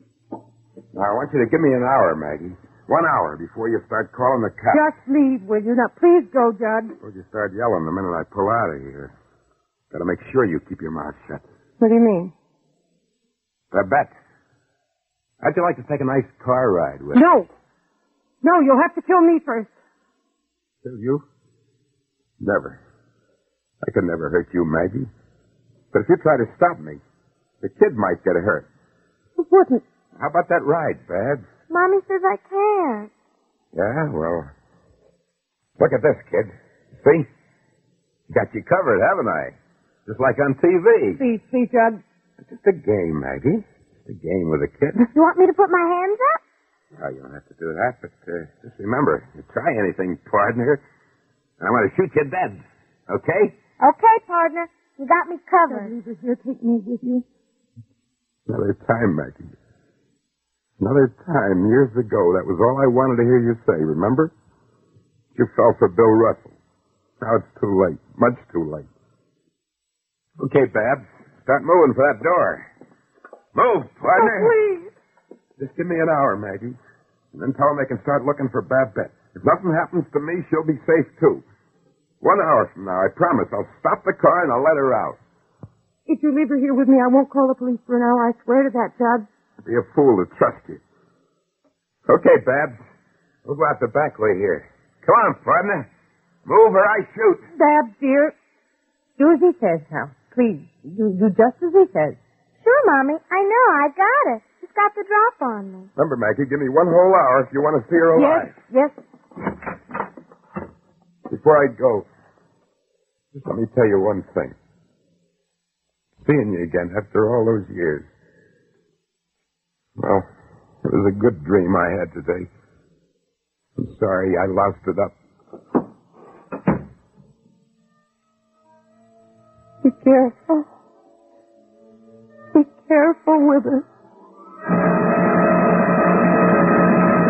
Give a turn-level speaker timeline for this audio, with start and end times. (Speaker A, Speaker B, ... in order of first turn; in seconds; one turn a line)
Speaker A: 0.9-4.8
Speaker B: 4.7-7.0
Speaker A: 7.0-9.1
Speaker A: 9.9-11.4
Speaker B: 11.8-12.3
Speaker A: 13.7-14.2
Speaker A: 15.4-17.2
Speaker B: 17.1-17.5
Speaker B: 18.4-19.7
Speaker A: 20.8-21.2
Speaker A: 22.4-22.8
Speaker A: 23.8-25.1
Speaker A: 25.9-27.0
Speaker A: 27.6-28.7
Speaker B: 29.4-29.9
Speaker A: 30.2-31.4
Speaker C: 31.7-33.1
Speaker A: 33.7-34.5
Speaker A: 35.8-37.3
Speaker A: 38.3-41.2
Speaker B: 41.2-42.0
Speaker A: 42.4-45.1
Speaker C: 45.1-46.4
Speaker A: 47.0-50.8
Speaker A: 51.6-53.5
Speaker C: 53.8-55.9
Speaker B: 55.7-57.2
Speaker A: 58.5-59.5
Speaker A: 60.8-64.3
Speaker A: 65.3-66.5
Speaker A: 67.2-68.9
Speaker A: 70.4-72.7
Speaker A: 73.5-74.5
Speaker B: 74.1-74.9
Speaker A: 75.6-76.8
Speaker A: 77.3-81.4
Speaker A: 82.2-85.2
Speaker B: 86.1-89.3
Speaker A: 89.6-90.8
Speaker A: 92.1-92.8
Speaker A: 93.5-95.9
Speaker A: 96.5-97.5
Speaker B: 97.5-98.3
Speaker B: 99.2-102.2
Speaker C: 102.6-105.9
Speaker A: 106.0-108.5
Speaker B: 108.1-109.0
Speaker A: 111.3-112.1
Speaker A: 113.3-114.5
Speaker A: 116.2-118.1
Speaker A: 120.0-120.2
Speaker A: 120.8-122.5
Speaker A: 123.8-125.1
Speaker B: 129.8-130.7
Speaker B: 132.5-133.8